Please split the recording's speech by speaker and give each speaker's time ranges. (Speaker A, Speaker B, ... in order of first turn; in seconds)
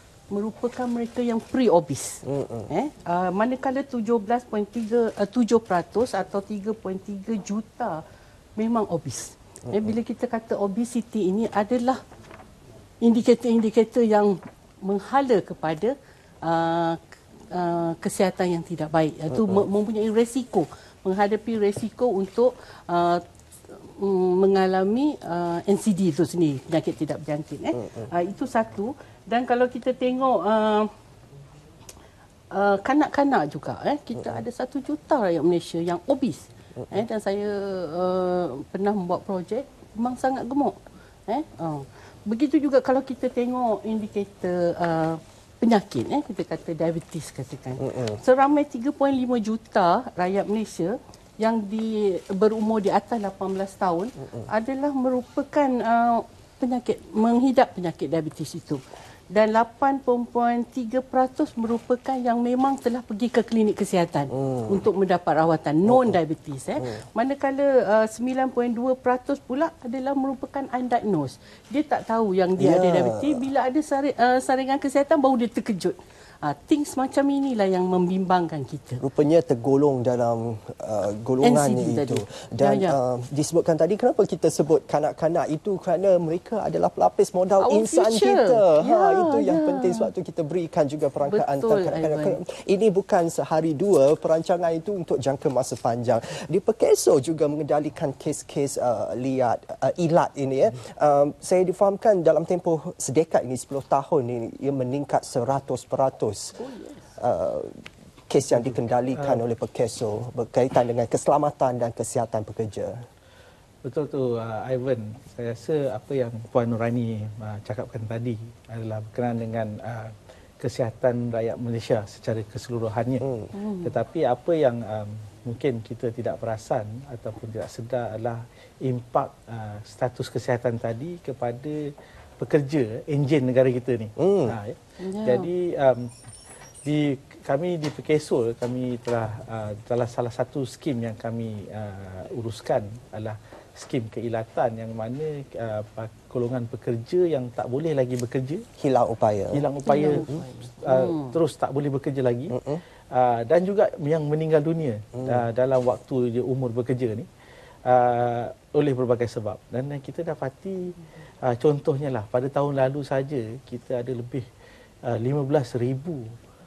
Speaker A: 0.3-8.0, 8.6-12.0, 13.0-30.9, 32.5-79.0, 81.4-83.0, 87.6-90.1, 91.3-92.4, 106.5-107.1, 123.5-124.0, 135.0-135.5, 149.8-151.4
Speaker B: 2.2-2.7, 47.8-48.2, 64.3-64.8, 65.8-66.2, 72.6-73.4, 79.0-106.6, 107.2-113.1, 123.2-123.5, 134.2-134.6, 148.8-149.7, 150.2-150.4, 152.5-152.8, 155.2-155.4
Speaker C: 108.5-109.4, 113.8-123.2, 123.8-131.8, 132.4-136.1, 136.8-148.6, 149.5-150.3, 150.8-152.6, 153.1-157.3, 157.8-164.5, 165.0-166.3